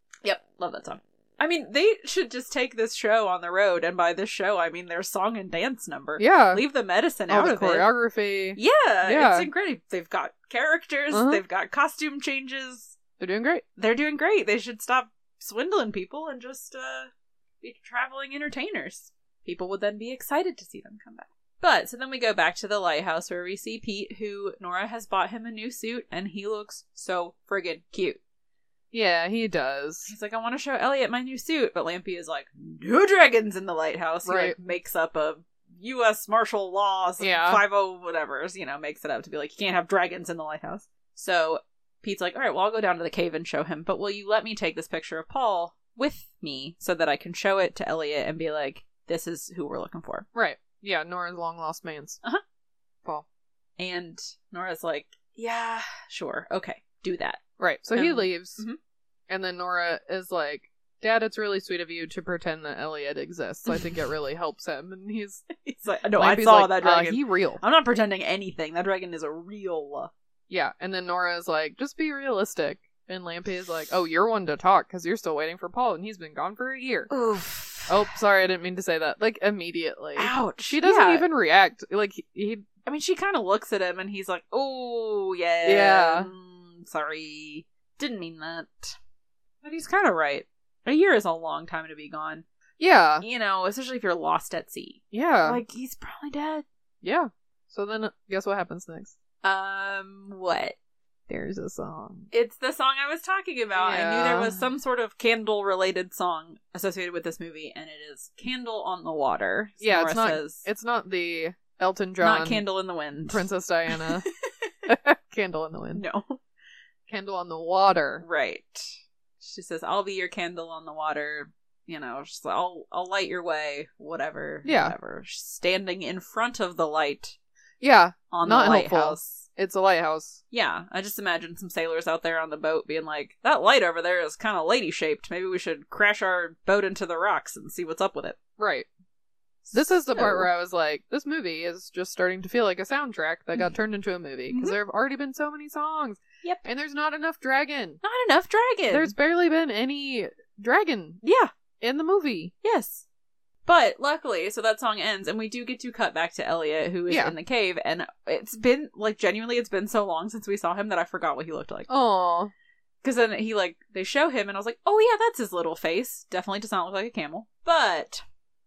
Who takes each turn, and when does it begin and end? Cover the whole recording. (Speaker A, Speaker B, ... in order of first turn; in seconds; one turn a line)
Speaker A: 0.2-7.9
Speaker B: 6.2-6.6
Speaker B: 7.3-9.5
Speaker A: 8.6-12.9
Speaker B: 11.1-11.4
Speaker B: 13.2-13.6
Speaker A: 13.8-17.1
Speaker A: 17.6-28.2
Speaker B: 28.9-30.1
Speaker A: 30.1-50.3
Speaker B: 34.2-34.6
Speaker B: 37.2-37.6
Speaker B: 50.3-52.2
Speaker A: 53.8-57.4
Speaker B: 57.6-58.6
Speaker A: 57.9-58.8
Speaker B: 59.3-65.5
Speaker A: 63.7-64.0
Speaker A: 65.6-70.1
Speaker B: 66.2-67.6
Speaker B: 70.5-77.1
Speaker A: 77.1-78.0
Speaker B: 77.9-82.7
Speaker A: 80.2-81.3
Speaker A: 82.8-89.0
Speaker B: 85.7-86.3
Speaker A: 89.6-92.4
Speaker B: 92.8-93.2
Speaker A: 93.2-96.6
Speaker B: 95.1-95.6
Speaker B: 97.0-99.2
Speaker A: 99.4-100.7
Speaker B: 101.3-102.3
Speaker A: 102.3-110.7
Speaker B: 103.8-104.7
Speaker B: 109.8-112.6
Speaker A: 112.2-114.7
Speaker B: 113.3-114.2
Speaker B: 114.9-116.0
Speaker A: 115.9-116.4
Speaker B: 117.1-118.2
Speaker A: 118.2-127.3
Speaker B: 124.6-124.9
Speaker B: 127.8-130.4
Speaker A: 128.3-129.5
Speaker A: 130.5-138.4
Speaker B: 138.6-138.9
Speaker A: 139.6-140.5
Speaker B: 139.7-148.0
Speaker A: 144.5-144.8
Speaker A: 148.0-149.1
Speaker B: 148.9-151.2
Speaker A: 151.2-151.5
Speaker B: 151.8-152.5
Speaker A: 152.6-153.0
Speaker A: 153.7-161.9
Speaker B: 157.1-157.3
Speaker B: 161.9-162.5
Speaker A: 163.0-168.2